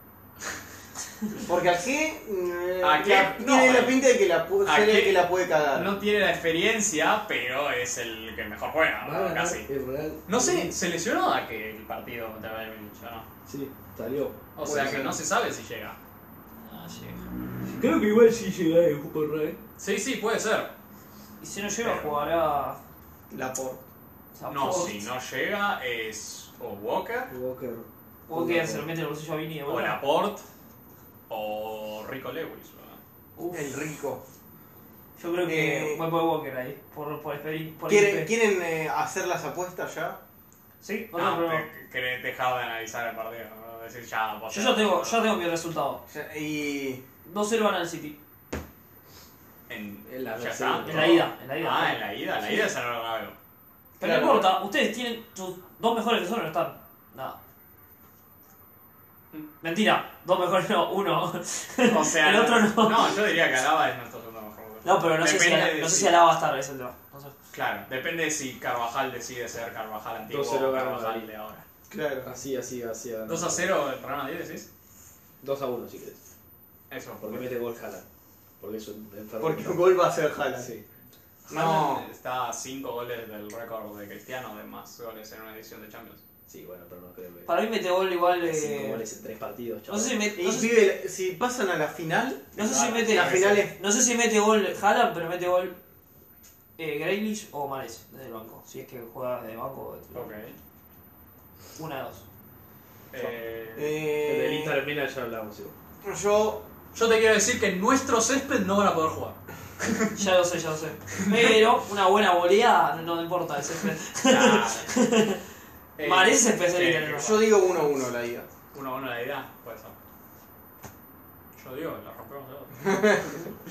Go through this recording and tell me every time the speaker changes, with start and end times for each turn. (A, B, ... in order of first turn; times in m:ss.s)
0:01.5-0:06.0 A
0:02.8-0:04.0 B
0:04.6-0:09.7 B
0:09.0-0:10.8 C
0:10.3-0:13.3 B
0:13.5-0:14.4 C
0:14.6-0:16.0 B
0:14.6-0:15.2 A
0:16.6-0:17.2 D
0:17.7-0:19.6 C
0:19.8-0:20.7 B
0:21.4-0:22.8 D
0:21.8-0:22.2 B
0:23.3-0:23.8 A
0:24.3-0:25.1 D
0:24.5-0:27.3 B
0:27.3-0:28.9 C
0:28.3-0:30.0 D
0:29.7-0:30.4 B
0:31.3-0:33.0 B
0:33.4-0:33.8 D
0:33.5-0:34.2 A
0:35.2-0:38.3 D
0:35.4-0:36.0 A
0:37.9-0:40.2 A
0:40.8-0:41.7 D
0:41.1-0:45.2 B
0:44.5-0:46.0 D
0:46.1-0:47.0 A
0:47.2-0:48.2 D
0:49.7-0:53.4 B
0:50.1-0:51.3 C
0:50.8-0:52.0 D
0:54.0-0:54.6 A
0:54.0-0:57.4 D
0:59.6-1:03.2 D
1:01.8-1:06.2 B
1:04.8-1:07.4 D
1:07.5-1:11.6 B
1:10.3-1:11.3 C
1:11.9-1:12.3 A
1:12.2-1:13.7 C
1:13.3-1:14.7 B
1:15.4-1:16.2 C
1:16.9-1:17.4 B
1:17.2-1:18.1 C
1:18.6-1:19.9 C
1:19.4-1:20.7 A
1:20.6-1:20.8 C
1:21.5-1:26.2 B
1:21.5-1:22.0 A
1:26.5-1:27.6 C
1:27.5-1:29.0 D
1:28.4-1:30.3 C
1:29.9-1:30.7 D
1:30.4-1:33.8 A
1:32.6-1:35.8 D
1:32.6-1:33.6 B
1:36.8-1:40.3 D
1:40.1-1:40.6 B
1:41.8-1:42.3 D
1:43.1-1:44.0 B
1:43.8-1:44.8 A
1:44.2-1:45.8 C
1:46.0-1:46.7 A
1:46.9-1:50.1 B
1:50.2-1:55.4 D
1:51.2-1:51.4 B
1:54.2-1:55.0 B
1:56.0-1:57.4 B
1:56.0-1:57.4 D
1:57.1-1:58.5 A
1:58.7-2:00.0 B
2:01.6-2:03.1 B
2:02.8-2:03.5 A